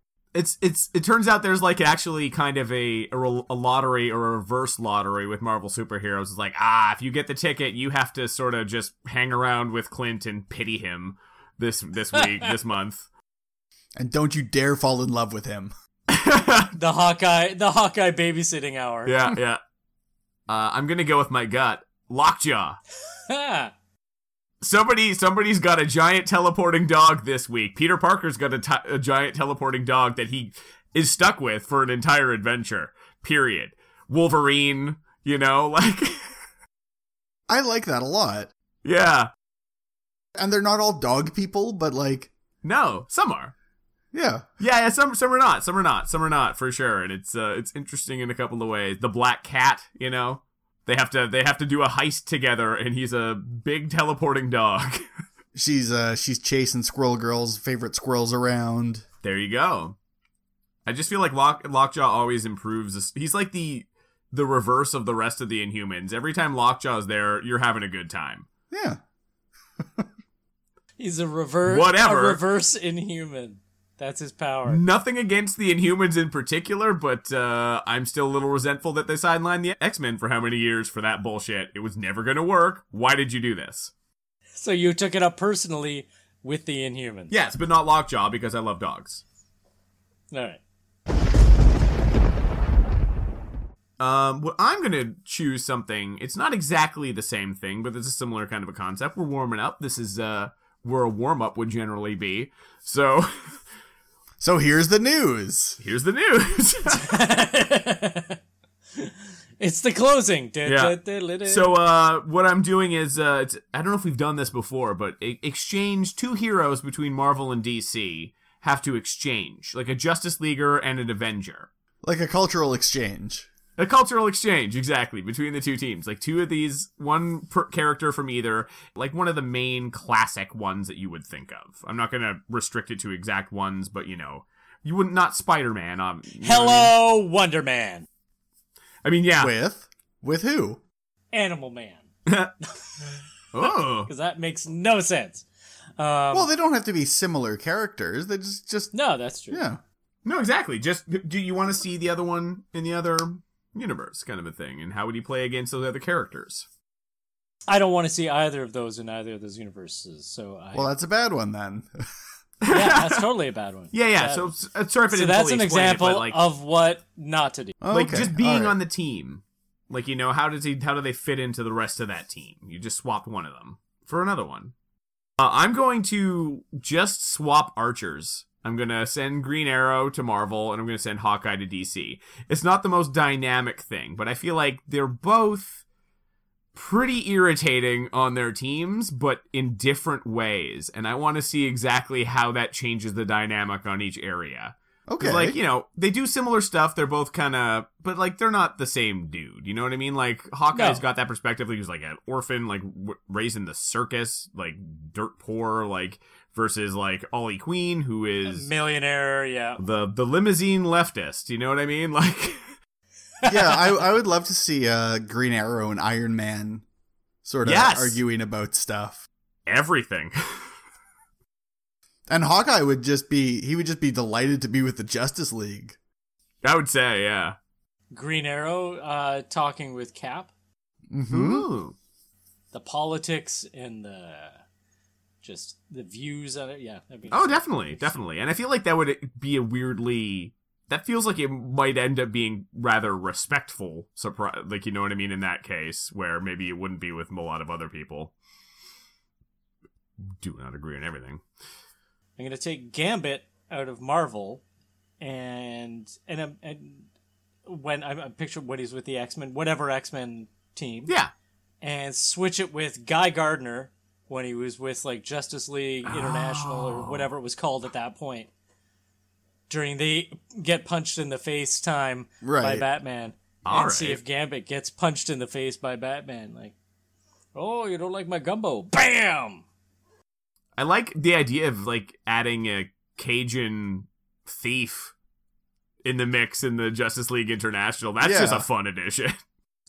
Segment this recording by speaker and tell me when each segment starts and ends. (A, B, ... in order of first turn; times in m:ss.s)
0:00.3-0:13.1 A
0:14.0-0:15.7 B
0:16.1-0:16.7 A
0:16.8-0:19.1 C
0:19.0-0:19.6 A
0:20.5-0:22.8 A
0:23.3-0:23.7 C
0:24.6-0:36.3 A
0:37.5-0:38.5 B
0:38.8-0:39.3 A
0:40.4-0:42.3 B
0:42.6-0:43.5 A
0:44.1-0:44.5 B
0:44.6-0:55.0 A
0:55.5-0:59.0 B
0:59.2-1:00.0 A
1:00.8-1:08.5 A
1:08.7-1:09.0 B
1:09.8-1:10.1 B
1:11.0-1:14.8 C
1:11.6-1:12.4 A
1:14.7-1:23.9 A
1:24.5-1:27.3 C
1:27.3-1:29.2 A
1:30.3-1:30.6 C
1:34.0-1:43.6 A
1:44.4-1:45.8 B
1:45.8-1:47.2 A
1:46.9-1:48.4 C
1:49.0-1:51.7 C
1:50.6-2:01.7 A
2:02.0-2:03.5 B
2:03.8-2:16.9 A
2:16.4-2:18.1 C
2:19.0-2:19.5 A
2:19.4-2:20.8 B
2:21.3-2:22.0 C
2:22.2-2:22.5 A
2:23.5-2:24.1 A
2:23.6-2:25.4 C
2:26.0-2:26.5 C
2:26.3-2:28.9 B
2:28.9-2:29.6 C
2:29.5-2:29.8 B
2:30.2-2:36.6 A
2:37.7-2:40.9 C
2:40.7-2:42.1 B
2:42.6-2:43.3 A
2:42.7-2:44.5 C
2:43.9-2:46.4 A
2:45.1-2:47.8 C
2:47.8-2:48.8 B
2:47.9-2:54.7 A
2:55.4-3:05.8 A
3:06.7-3:28.7 A
3:15.1-3:15.6 B
3:20.7-3:21.0 C
3:28.4-3:29.8 C
3:29.8-3:32.7 A
3:33.4-3:33.9 C
3:33.4-3:36.8 B
3:37.4-3:39.2 B
3:37.6-3:38.2 A
3:39.6-3:40.7 A
3:42.3-3:46.0 B
3:46.6-3:47.6 A
3:48.1-3:50.5 C
3:51.1-3:51.7 B
3:51.3-3:51.9 A
3:52.7-3:54.6 C
3:55.4-3:58.2 C
3:57.3-4:08.3 A
4:10.4-4:11.4 A
4:12.4-4:14.6 C
4:15.2-4:17.1 C
4:17.6-4:21.1 C
4:21.8-4:28.5 C
4:26.1-4:27.3 A
4:29.7-4:36.7 C
4:32.4-4:32.8 B
4:33.6-4:34.2 A
4:37.5-4:39.6 C
4:40.8-4:45.1 A
4:46.0-4:49.4 A
4:48.2-4:48.7 B